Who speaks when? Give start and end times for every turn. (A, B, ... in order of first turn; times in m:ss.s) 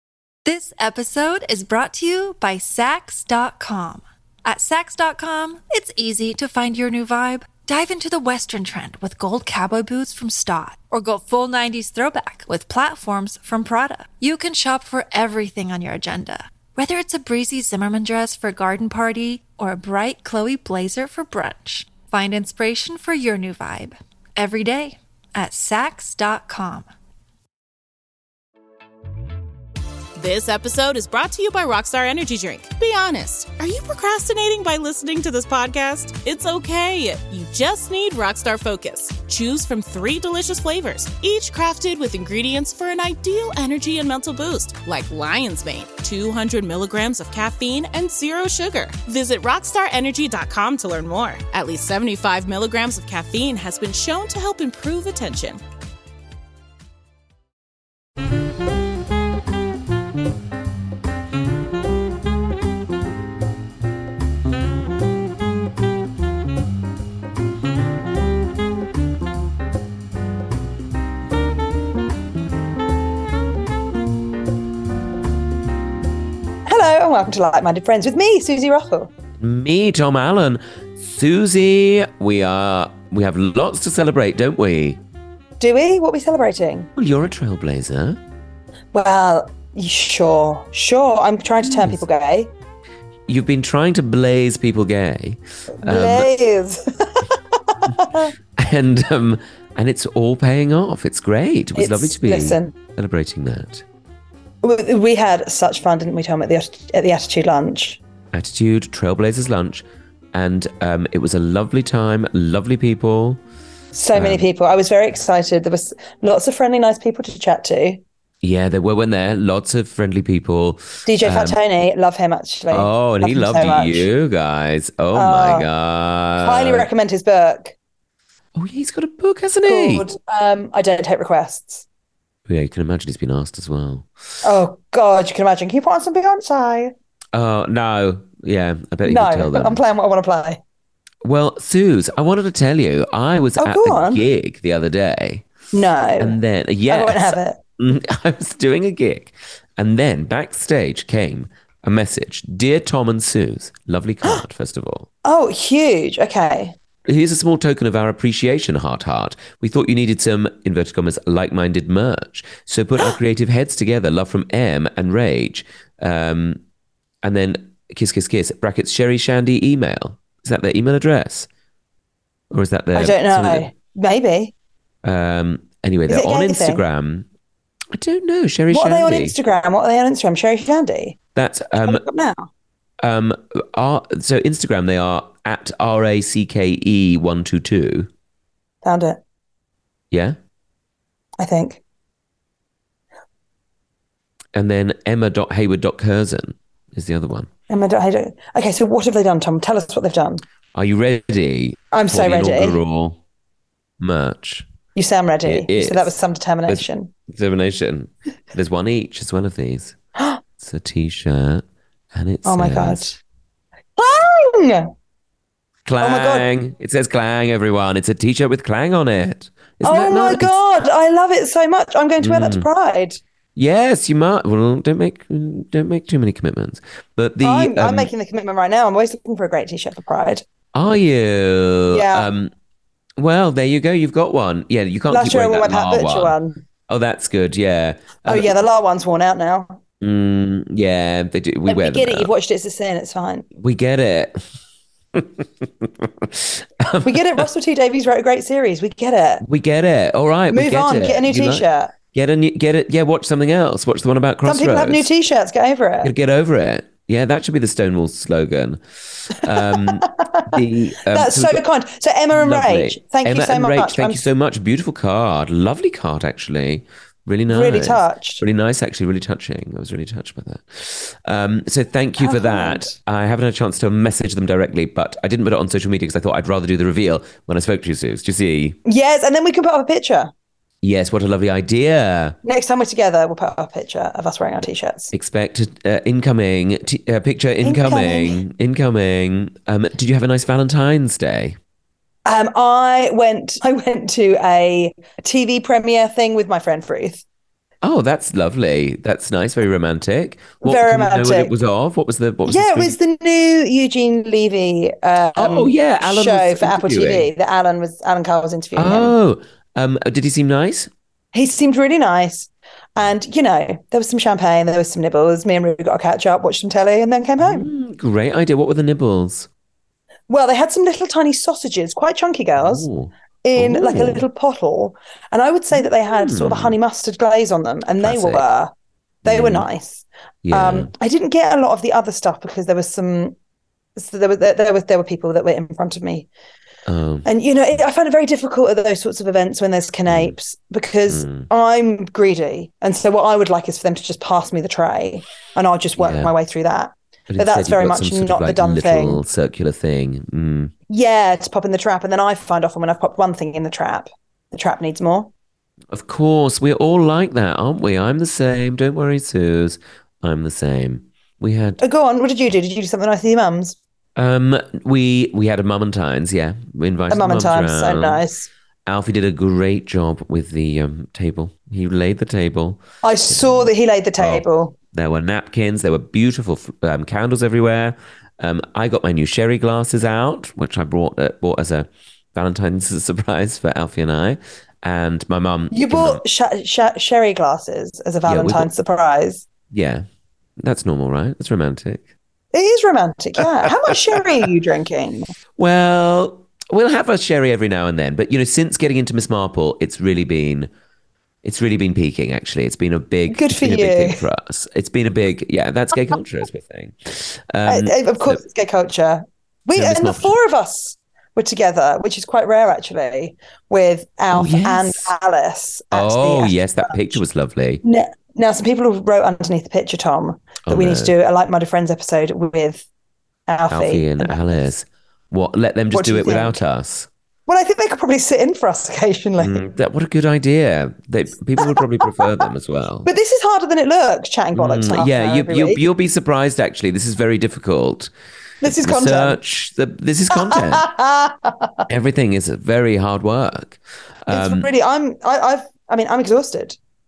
0:00.4-0:26.9 A
0:30.2-0:55.6 B
1:16.6-1:19.1 C
1:19.4-1:25.0 D
1:25.6-1:26.9 C
1:27.0-1:28.2 D
1:28.9-1:32.5 C
1:33.3-1:36.3 D
1:35.8-1:38.3 C
1:38.6-1:43.8 D
1:41.7-1:42.7 C
1:44.6-1:48.0 C
1:48.3-1:53.4 D
1:53.9-1:58.0 C
1:54.1-1:54.5 D
1:58.4-2:01.6 D
2:01.0-2:04.1 C
2:02.7-2:06.9 D
2:05.1-2:05.7 C
2:06.4-2:07.7 C
2:08.5-2:10.1 D
2:09.6-2:11.8 C
2:12.5-2:14.1 D
2:14.4-2:16.9 C
2:17.3-2:19.8 D
2:19.0-2:20.6 C
2:21.2-2:25.5 D
2:23.6-2:24.2 C
2:25.7-2:26.4 C
2:26.2-2:35.1 D
2:26.9-2:27.6 C
2:35.2-2:36.8 C
2:37.0-2:46.6 D
2:47.2-2:51.5 D
2:52.5-2:53.7 D
2:52.9-2:54.5 C
2:55.0-2:57.3 D
2:56.1-2:56.8 C
2:57.9-2:59.4 D
2:58.7-3:01.2 C
3:01.3-3:02.0 D
3:01.8-3:02.5 C
3:03.0-3:08.1 D
3:08.8-3:09.2 C
3:10.1-3:10.4 D
3:11.4-3:11.8 C
3:14.5-3:17.5 D
3:17.7-3:20.4 C
3:20.7-3:23.2 D
3:21.9-3:22.8 C
3:24.0-3:24.7 D
3:24.9-3:27.1 C
3:25.4-3:26.1 D
3:26.6-3:30.0 D
3:30.2-3:30.4 C
3:30.6-3:33.1 D
3:32.4-3:33.2 C
3:34.0-3:34.9 C
3:35.8-3:40.5 D
3:36.0-3:36.5 C
3:39.8-3:43.2 C
3:42.2-3:42.7 D
3:43.6-3:48.1 D
3:47.4-3:50.4 C
3:50.7-3:52.5 D
3:51.9-3:52.3 C
3:53.2-3:56.3 D
3:55.1-3:56.6 C
3:56.9-3:58.6 D
3:58.2-3:59.8 C
4:00.0-4:02.3 D
4:01.6-4:03.4 C
4:03.5-4:04.4 D
4:05.1-4:07.4 D
4:07.0-4:09.4 C
4:09.4-4:15.1 D
4:10.5-4:11.9 C
4:14.4-4:16.1 C
4:16.0-4:21.6 D
4:19.5-4:24.2 C
4:22.3-4:38.8 D
4:27.5-4:28.4 C
4:32.2-4:32.9 C
4:38.8-4:40.3 C
4:40.8-4:42.4 D
4:42.4-4:45.1 C
4:45.1-4:51.6 D
4:47.6-4:48.4 C
4:52.2-4:57.2 C
4:57.8-5:03.0 D
5:00.6-5:01.5 C
5:02.4-5:09.2 C
5:05.4-5:07.3 D
5:08.7-5:10.9 D
5:11.3-5:17.7 C
5:17.4-5:19.5 D
5:20.3-5:22.9 C
5:22.6-5:24.2 D
5:23.4-5:28.7 C
5:25.7-5:26.8 D
5:28.0-5:28.4 D
5:29.2-5:33.3 C
5:29.2-5:29.7 D
5:30.4-5:30.9 D
5:34.0-5:36.3 C
5:36.8-5:37.3 D
5:37.2-5:49.2 C
5:40.1-5:40.4 D
5:41.1-5:41.5 D
5:46.0-5:46.3 D
5:47.3-5:50.7 D
5:50.9-5:55.3 C
5:55.9-6:01.8 D
6:01.8-6:03.8 C
6:04.2-6:08.2 D
6:07.1-6:08.5 C
6:08.8-6:26.2 D
6:13.0-6:14.7 C
6:25.7-6:29.4 C
6:28.2-6:28.7 D
6:29.7-6:30.0 D
6:30.6-6:32.1 D
6:32.5-6:35.3 C
6:33.4-6:34.4 D
6:35.6-6:40.7 D
6:41.4-6:48.4 D
6:43.3-6:44.2 C
6:47.6-6:57.2 C
6:49.7-6:50.3 D
6:54.3-6:55.1 D
6:55.9-6:57.8 D
6:57.8-7:02.8 C
7:00.7-7:01.1 D
7:03.5-7:04.7 C
7:03.7-7:07.1 D
7:05.9-7:06.6 C
7:07.5-7:09.6 C
7:09.4-7:13.1 D
7:11.6-7:12.3 C
7:13.0-7:15.8 C
7:14.5-7:18.1 D
7:18.6-7:19.4 C
7:18.6-7:20.9 D
7:20.3-7:21.8 C
7:21.9-7:24.7 D
7:24.3-7:26.8 C